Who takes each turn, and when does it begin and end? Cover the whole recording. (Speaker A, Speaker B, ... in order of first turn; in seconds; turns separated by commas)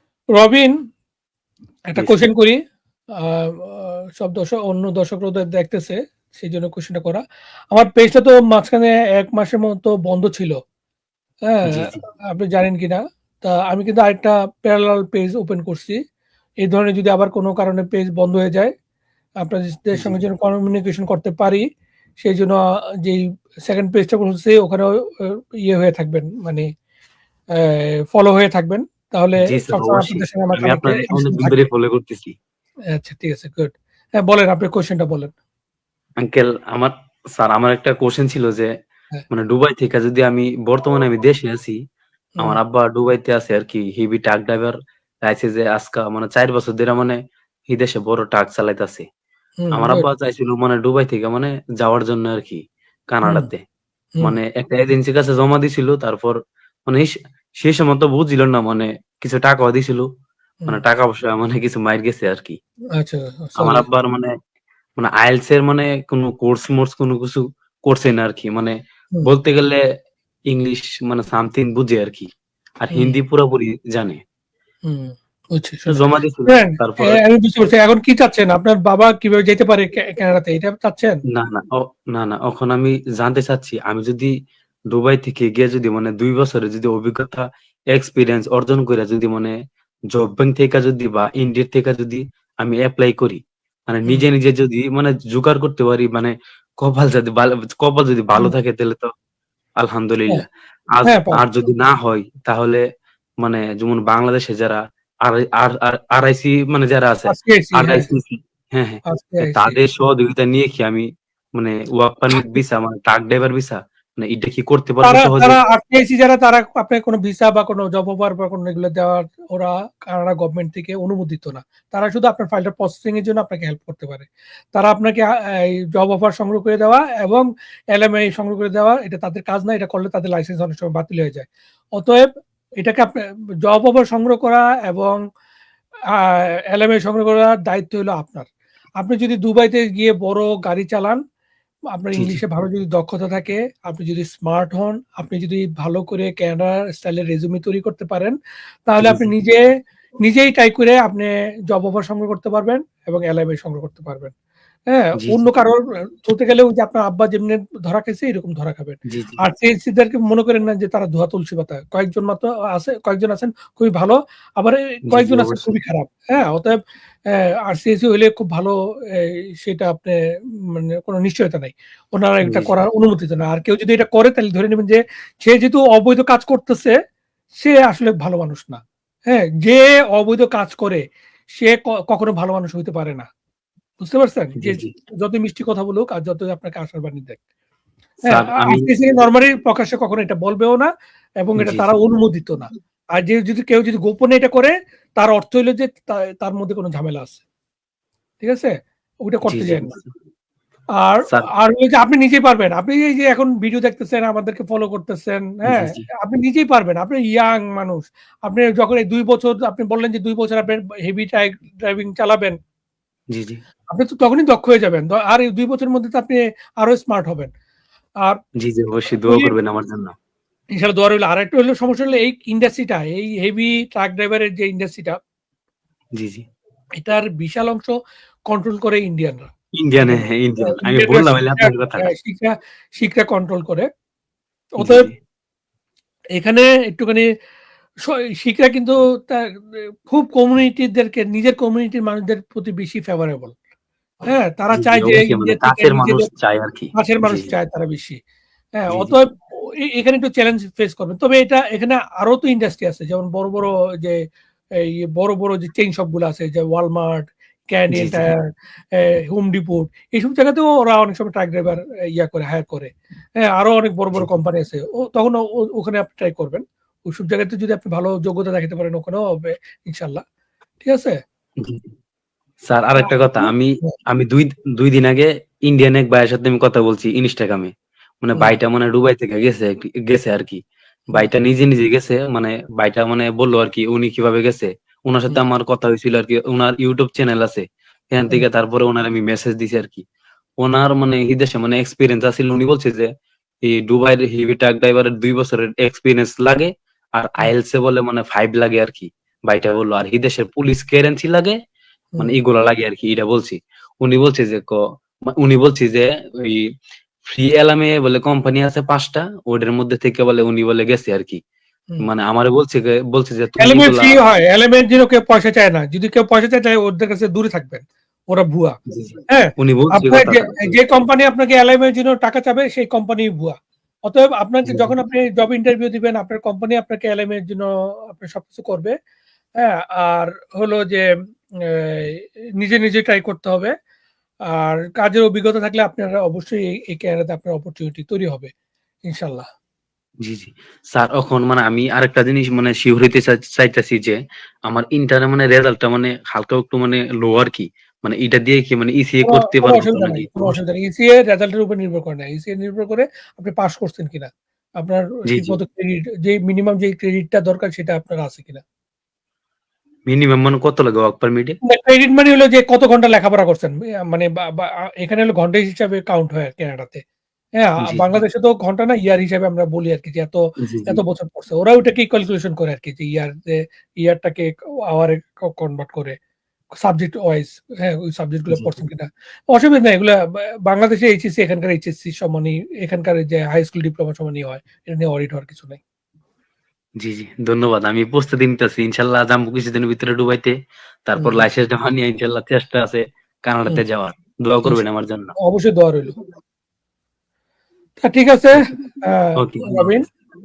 Speaker A: 0.4-0.7, Speaker A: 1.9-2.6, Speaker B: 2.0-2.3, Speaker A: 3.2-7.2, Speaker A: 7.7-10.6, Speaker A: 11.5-16.0, Speaker B: 11.7-12.0, Speaker A: 16.6-18.7, Speaker A: 19.4-21.6, Speaker A: 22.2-26.7, Speaker A: 27.6-31.6, Speaker B: 29.4-32.4, Speaker A: 33.0-35.3, Speaker B: 36.2-38.7, Speaker B: 39.3-41.8, Speaker B: 42.4-47.2, Speaker B: 47.7-49.0, Speaker A: 49.6-50.1, Speaker B: 49.7-53.6, Speaker B: 54.2-60.1, Speaker B: 60.7-62.6, Speaker A: 63.0-63.9, Speaker B: 63.6-64.3, Speaker B: 65.0-69.8, Speaker B: 70.5-72.3, Speaker B: 72.8-74.2, Speaker A: 74.9-81.2, Speaker B: 75.9-77.2, Speaker B: 81.3-84.3, Speaker B: 84.9-89.6, Speaker B: 90.1-99.1, Speaker B: 99.8-102.8, Speaker A: 101.0-101.4, Speaker B: 103.4-115.6, Speaker A: 107.3-108.1, Speaker A: 109.1-109.8, Speaker A: 115.0-132.3, Speaker A: 132.8-135.2, Speaker A: 136.1-138.5, Speaker A: 139.0-141.2, Speaker A: 141.9-149.6, Speaker B: 149.0-149.3, Speaker A: 150.2-154.3, Speaker A: 154.9-166.8, Speaker B: 155.2-155.5, Speaker B: 159.1-159.4, Speaker B: 165.1-165.7, Speaker A: 167.3-176.9, Speaker B: 172.4-172.7, Speaker A: 177.6-181.0, Speaker A: 181.6-183.3, Speaker A: 184.0-187.4, Speaker B: 184.6-184.9, Speaker B: 188.3-188.9, Speaker A: 188.3-190.9, Speaker A: 191.4-197.4, Speaker B: 191.6-191.9, Speaker A: 198.4-198.7, Speaker A: 199.2-199.9, Speaker B: 199.5-200.1, Speaker A: 201.0-212.6, Speaker B: 205.7-206.0, Speaker B: 213.3-213.6, Speaker A: 213.9-217.5, Speaker B: 218.6-220.1, Speaker A: 219.2-219.5, Speaker A: 220.8-225.2, Speaker B: 226.2-226.4, Speaker A: 227.0-227.9, Speaker A: 228.5-229.5, Speaker B: 229.8-232.1, Speaker A: 230.0-233.9, Speaker A: 234.8-235.1, Speaker B: 234.8-235.1, Speaker A: 236.4-237.2, Speaker A: 238.1-243.6, Speaker A: 244.3-246.3, Speaker B: 244.7-247.5, Speaker A: 246.9-248.2, Speaker A: 248.8-254.2, Speaker A: 254.8-258.4, Speaker B: 257.9-258.3, Speaker A: 259.0-270.2, Speaker A: 270.8-271.2, Speaker B: 272.7-277.7, Speaker A: 273.0-273.9, Speaker B: 278.2-280.6, Speaker B: 281.1-290.0, Speaker B: 290.6-293.1, Speaker B: 293.6-301.6, Speaker B: 302.2-306.7, Speaker B: 307.2-311.4, Speaker B: 312.0-314.2, Speaker A: 313.6-318.8, Speaker B: 318.9-320.8, Speaker A: 319.3-328.9, Speaker B: 324.7-325.0, Speaker A: 329.6-331.1, Speaker A: 331.6-333.7, Speaker A: 334.5-338.5, Speaker A: 339.1-339.4, Speaker B: 340.2-350.6, Speaker A: 349.2-358.6, Speaker B: 355.3-355.6, Speaker B: 360.1-361.6, Speaker A: 361.7-367.0, Speaker A: 367.6-376.2, Speaker B: 367.8-368.2, Speaker B: 370.6-371.0, Speaker A: 376.8-385.8, Speaker B: 378.5-378.8, Speaker B: 387.0-390.5, Speaker B: 391.1-395.3, Speaker A: 391.2-391.5, Speaker A: 395.4-396.1, Speaker A: 398.0-400.1, Speaker B: 399.4-400.0